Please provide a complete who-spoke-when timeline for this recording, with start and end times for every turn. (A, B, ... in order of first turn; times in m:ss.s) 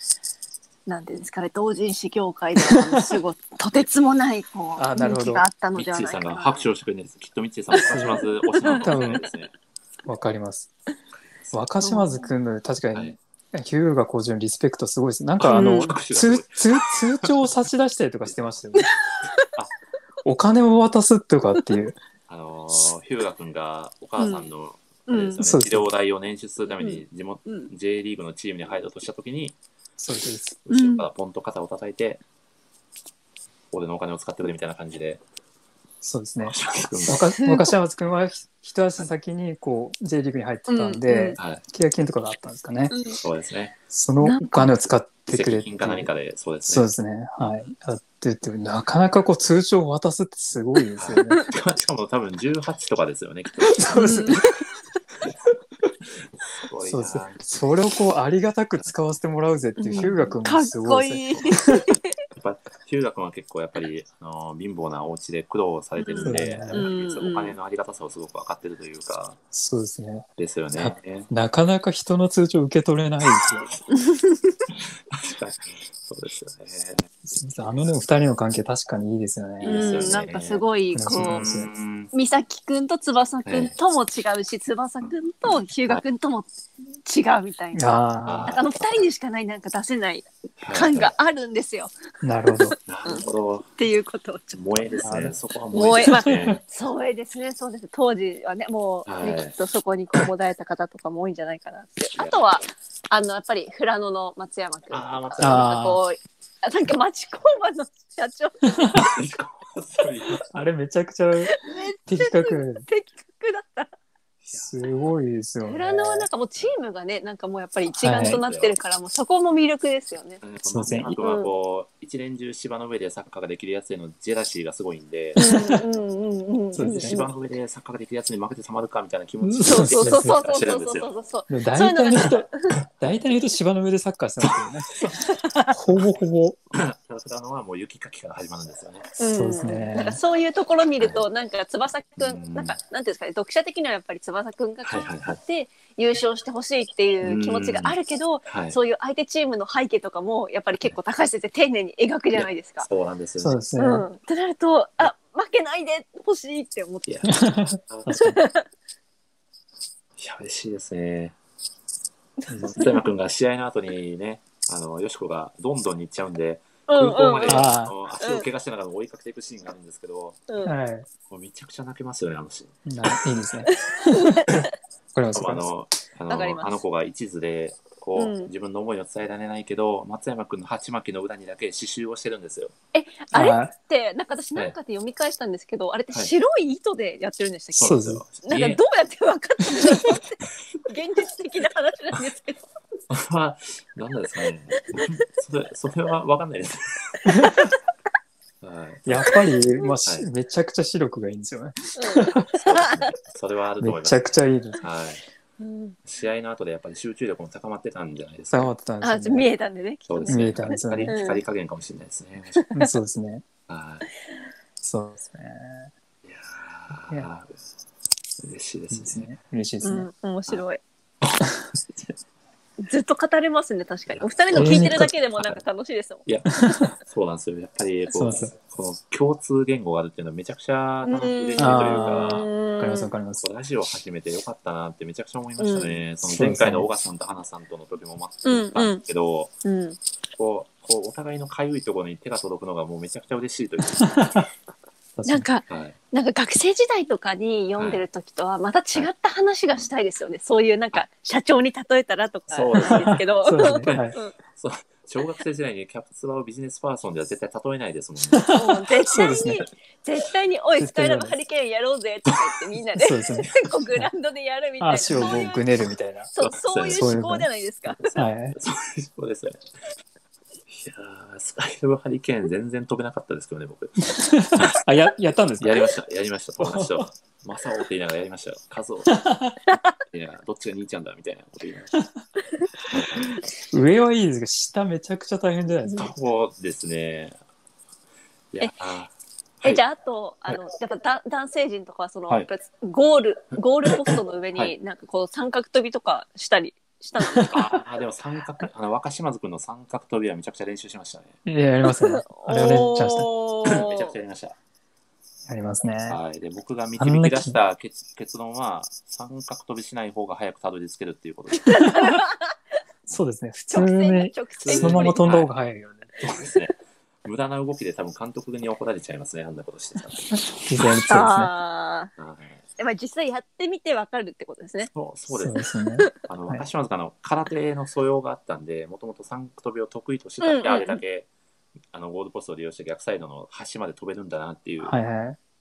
0:00.9-0:06.7 A
0:02.6-0:03.1 B
0:04.8-0:05.4 B
0:05.8-0:09.5 C
0:07.9-0:09.2 B
0:08.6-0:09.2 A
0:10.1-0:10.7 B
0:11.1-0:11.7 C
0:11.5-0:18.9 B
0:11.8-0:12.3 A
0:15.4-0:17.5 C
0:15.5-0:16.0 A
0:18.3-0:18.6 C
0:19.2-0:19.5 A
0:20.2-0:22.0 B
0:22.3-0:29.6 C
0:24.2-0:24.5 A
0:25.1-0:25.4 A
0:25.4-0:25.9 B
0:26.8-0:27.7 A
0:30.0-0:30.6 B
0:30.7-0:32.2 C
0:30.7-0:31.1 A
0:33.7-0:35.2 C
0:36.0-0:42.9 B
0:36.4-0:37.3 C
0:37.4-0:37.7 A
0:40.7-0:41.4 A
0:41.4-0:41.6 C
0:42.9-0:43.2 A
0:43.2-0:43.8 C
0:43.9-0:46.1 B
0:44.2-0:44.7 A
0:45.3-0:47.7 C
0:46.6-0:51.4 B
0:51.0-0:54.4 C
0:53.7-0:54.5 B
0:53.9-0:54.6 A
0:56.0-0:57.4 C
0:56.8-1:01.8 B
0:59.8-1:02.2 A
1:01.4-1:01.7 C
1:02.3-1:09.4 C
1:06.0-1:07.6 A
1:06.2-1:06.9 B
1:09.5-1:13.8 B
1:10.4-1:11.3 C
1:14.0-1:14.6 A
1:15.1-1:17.1 C
1:17.3-1:20.2 B
1:19.6-1:22.1 C
1:19.6-1:21.6 A
1:20.9-1:21.7 B
1:22.1-1:26.5 A
1:23.5-1:23.7 C
1:27.0-1:31.9 A
1:27.8-1:28.6 B
1:28.3-1:29.1 C
1:30.6-1:31.1 C
1:32.2-1:32.8 B
1:32.6-1:34.9 A
1:32.9-1:33.7 C
1:34.5-1:36.6 C
1:35.0-1:35.4 B
1:35.7-1:49.2 A
1:36.2-1:36.6 B
1:39.1-1:39.6 C
1:44.9-1:45.7 C
1:45.4-1:46.0 B
1:48.8-1:49.0 B
1:49.0-1:50.7 C
1:50.5-1:52.8 B
1:51.5-1:53.9 A
1:54.4-1:55.1 C
1:54.5-1:56.3 B
1:55.6-2:00.4 A
1:58.0-1:58.4 B
1:58.2-1:58.8 C
2:00.4-2:05.4 C
2:00.6-2:01.2 B
2:01.1-2:01.5 A
2:05.4-2:05.8 B
2:05.4-2:07.3 A
2:06.7-2:07.2 B
2:06.8-2:11.1 C
2:09.4-2:10.4 B
2:09.7-2:12.5 A
2:11.5-2:14.9 B
2:15.0-2:15.3 C
2:15.7-2:16.6 B
2:16.7-2:19.1 C
2:19.2-2:32.9 A
2:19.2-2:20.2 B
2:22.2-2:22.8 C
2:24.8-2:25.4 C
2:27.2-2:28.0 C
2:28.5-2:28.8 C
2:32.3-2:33.6 C
2:33.4-2:34.1 B
2:33.8-2:37.2 A
2:37.1-2:38.1 C
2:37.3-2:38.4 B
2:38.2-2:38.6 A
2:40.2-2:41.4 C
2:42.5-2:42.8 B
2:42.6-2:50.4 C
2:46.9-2:48.5 A
2:47.5-2:47.9 B
2:50.6-2:51.1 B
2:51.3-2:52.8 C
2:52.9-2:55.6 B
2:53.7-2:54.7 A
2:55.3-3:02.8 C
2:56.3-2:56.8 A
2:58.2-2:58.5 A
3:02.9-3:12.6 A
3:03.3-3:03.7 B
3:07.7-3:08.8 C
3:07.8-3:08.2 B
3:13.1-3:17.3 C
3:14.8-3:15.2 A
3:17.3-3:17.7 B
3:18.6-3:19.4 C
3:19.1-3:22.5 B
3:22.0-3:23.1 A
3:22.5-3:24.3 C
3:23.8-3:24.8 B
3:24.8-3:25.2 C
3:25.6-3:26.0 A
3:26.0-3:28.7 C
3:28.5-3:29.5 B
3:29.0-3:31.4 A
3:30.1-3:32.6 C
3:30.3-3:31.2 B
3:32.6-3:32.9 A
3:32.7-3:33.4 B
3:33.7-3:34.1 C
3:34.8-3:35.9 B
3:36.2-3:37.6 C
3:38.4-3:39.3 C
3:38.9-3:40.1 B
3:39.8-3:40.8 A
3:42.8-3:46.3 A
3:44.1-3:45.6 C
3:44.6-3:45.1 B
3:46.3-3:52.5 C
3:46.6-3:47.0 B
3:48.1-3:48.5 B
3:51.0-3:53.1 A
3:51.6-3:53.4 B
3:53.4-3:59.5 C
3:55.6-3:56.0 A
3:56.2-3:56.9 B
3:58.4-3:59.0 A
3:59.6-4:00.0 A
4:00.4-4:04.4 C
4:04.0-4:04.5 B
4:05.2-4:05.5 B
4:05.3-4:14.3 A
4:05.7-4:06.0 C
4:07.8-4:08.0 C
4:12.5-4:18.6 C
4:12.9-4:14.2 B
4:18.3-4:19.7 B
4:18.5-4:25.6 A
4:20.8-4:21.4 B
4:23.0-4:24.1 B
4:24.8-4:26.3 B
4:25.1-4:25.5 C
4:26.3-4:28.1 A
4:26.4-4:27.1 C
4:27.0-4:27.5 B
4:28.0-4:29.6 C
4:28.2-4:28.6 B
4:30.7-4:34.8 C
4:34.0-4:35.8 B
4:35.6-4:39.2 C
4:36.6-4:37.1 B
4:39.1-4:39.6 B
4:40.1-4:41.9 C
4:42.0-4:42.2 B
4:42.9-4:43.4 C
4:43.7-4:46.1 B
4:46.0-4:47.4 C
4:48.5-4:49.1 C
4:49.6-4:57.6 A
4:53.9-4:54.7 C
4:57.2-4:57.6 B
4:57.5-5:01.4 C
5:01.5-5:03.3 B
5:01.8-5:04.1 A
5:03.6-5:04.6 C
5:05.5-5:06.2 B
5:06.1-5:11.9 C
5:07.0-5:07.6 B
5:11.6-5:12.6 A
5:13.1-5:16.1 B
5:13.7-5:15.3 A
5:14.6-5:15.5 C
5:16.2-5:20.5 C
5:20.3-5:21.5 B
5:21.1-5:22.1 A
5:22.2-5:22.6 C
5:22.8-5:24.9 A
5:24.9-5:25.6 C
5:25.3-5:26.6 B
5:26.2-5:31.3 C
5:30.4-5:31.0 A
5:31.9-5:34.9 C
5:34.8-5:35.4 B